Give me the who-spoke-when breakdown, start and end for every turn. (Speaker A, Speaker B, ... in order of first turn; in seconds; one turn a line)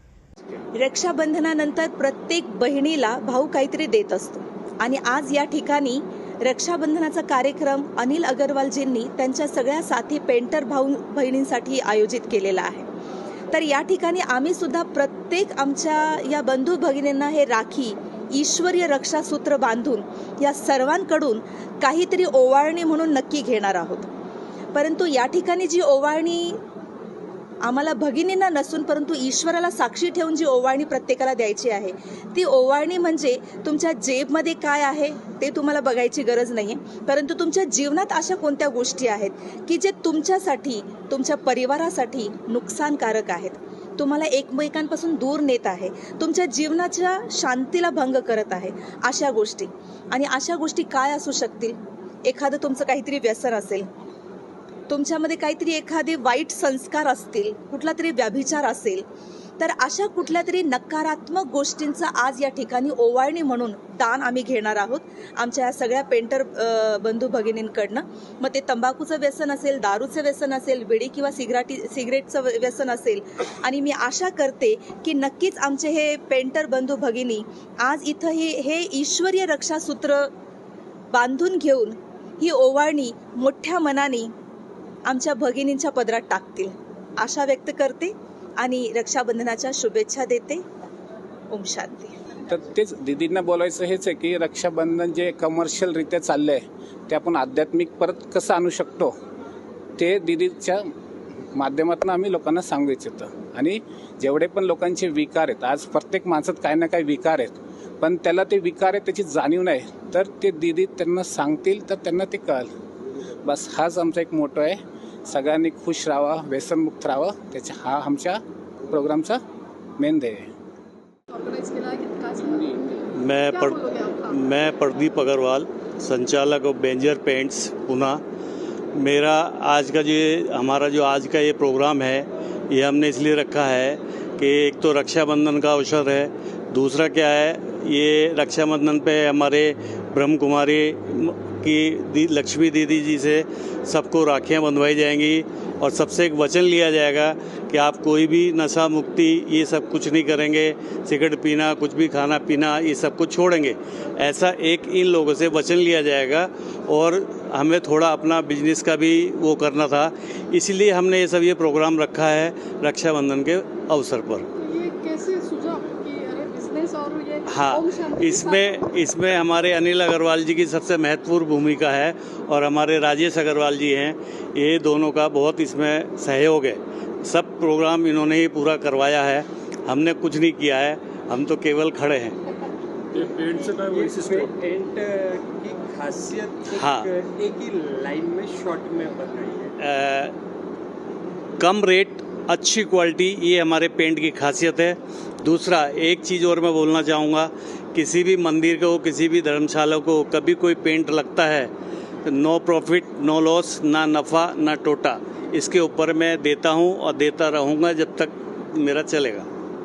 Speaker A: 0.8-12.9
Speaker A: 13.5-24.1
Speaker A: 24.7-26.6
Speaker A: 27.6-53.9
Speaker A: 54.9-59.0
Speaker A: 59.6-80.3
Speaker A: 81.1-84.3
Speaker A: 85.1-90.6
Speaker A: 91.5-92.2
Speaker B: 92.5-99.1
Speaker B: 100.0-100.8
Speaker B: 101.5-112.7
Speaker B: 113.4-119.4
Speaker B: 120.0-120.5
Speaker C: 121.3-124.5
Speaker D: 123.1-128.2
Speaker D: 128.9-164.5
Speaker C: 164.6-169.1
Speaker D: 167.5-182.4
Speaker E: 183.2-189.8
Speaker D: 186.7-187.1
Speaker D: 189.8-190.4
Speaker D: 191.6-201.7
Speaker D: 202.2-209.5